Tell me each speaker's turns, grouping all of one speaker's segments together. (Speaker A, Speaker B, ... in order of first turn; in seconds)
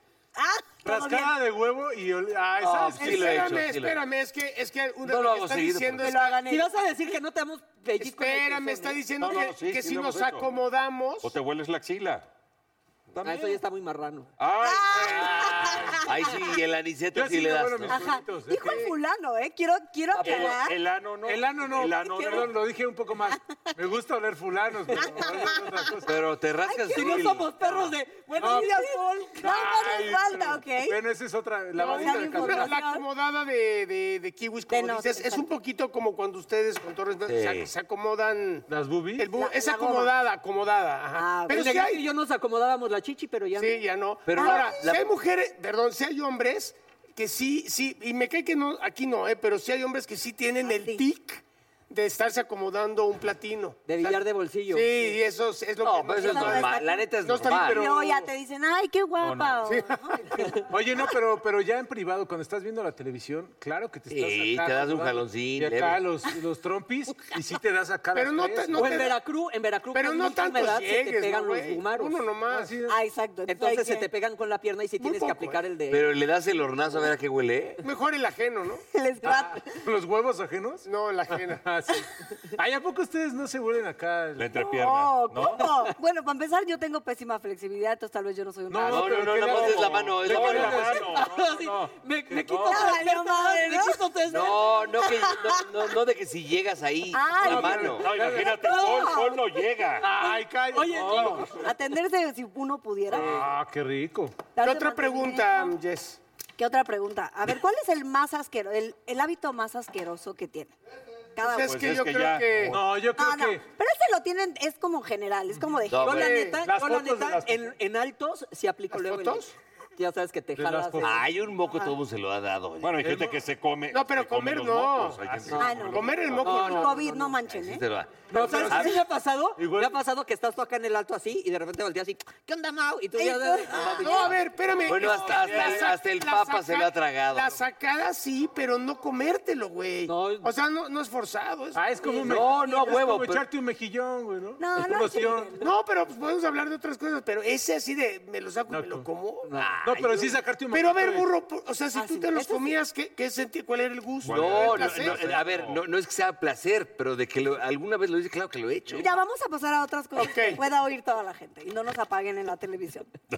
Speaker A: 0.4-1.3, 6.0-6.7, 14.6-16.1, 17.9-20.8, 25.0-25.4, 26.6-27.3, 28.5-31.0, 31.8-33.0, 34.7-35.5, 39.4-40.1, 41.2-41.6, 44.4-44.8, 50.6-51.0, 56.2-60.6, 72.9-74.1, 78.9-79.8, 84.6-89.8, 92.6-94.0, 95.0-95.6, 97.1-99.6, 101.5-103.3, 104.6-105.7, 106.6-110.7, 111.4-111.8, 113.2-116.5, 125.6-127.8, 128.4-128.6, 133.2-134.3, 142.0-143.0, 144.6-145.7, 151.9-152.8, 159.0-163.1
Speaker B: 0.8-3.4, 17.1-18.9, 21.2-26.2, 27.1-28.8, 29.4-32.7, 38.7-39.3, 60.7-69.1, 72.5-73.0, 79.2-80.9, 81.5-84.7, 88.7-91.3, 97.4-98.7, 100.0-101.5, 103.1-104.5, 112.7-113.6, 116.6-117.7, 120.5-121.2, 123.0-123.4, 125.3-126.1, 129.6-130.0, 141.8-145.6, 148.7-149.1, 149.8-151.3
Speaker C: 2.6-4.0, 5.0-6.1, 15.8-18.0, 26.0-27.5, 37.3-37.7, 44.3-45.1, 55.8-57.9, 64.1-66.0, 75.9-77.8, 88.8-90.9, 94.3-98.1, 115.9-116.5, 121.0-123.2, 126.3-129.0, 133.8-137.6, 142.2-143.4, 149.6-150.0, 154.3-159.1
Speaker D: 3.0-6.4, 8.0-11.3, 15.0-15.3, 18.6-18.9, 31.8-42.1, 43.6-58.2, 68.2-69.2, 69.9-72.7, 75.0-75.6, 77.8-78.8, 80.8-81.7, 104.6-106.2, 111.4-112.8, 116.1-116.6, 118.9-119.5, 123.9-125.2, 125.8-127.0, 128.3-129.0, 134.0-141.8, 145.6-149.6, 150.7-155.2, 160.2-160.6
Speaker E: 6.4-9.0, 13.2-14.3, 22.0-22.4, 26.9-29.4, 41.5-43.8, 53.9-55.1, 68.7-72.2, 73.5-76.1, 91.1-94.9, 98.5-99.2, 100.0-101.5, 116.0-121.1, 125.5-125.9, 128.3-134.3, 140.1-140.5, 149.4-149.8
Speaker F: 9.2-10.5, 11.2-12.3, 13.1-13.6, 14.4-16.1, 20.1-22.6, 59.2-59.7, 84.4-85.8, 89.5-92.9, 97.9-100.2, 101.0-101.7, 111.6-112.8, 122.8-126.4, 135.1-135.8, 154.2-155.8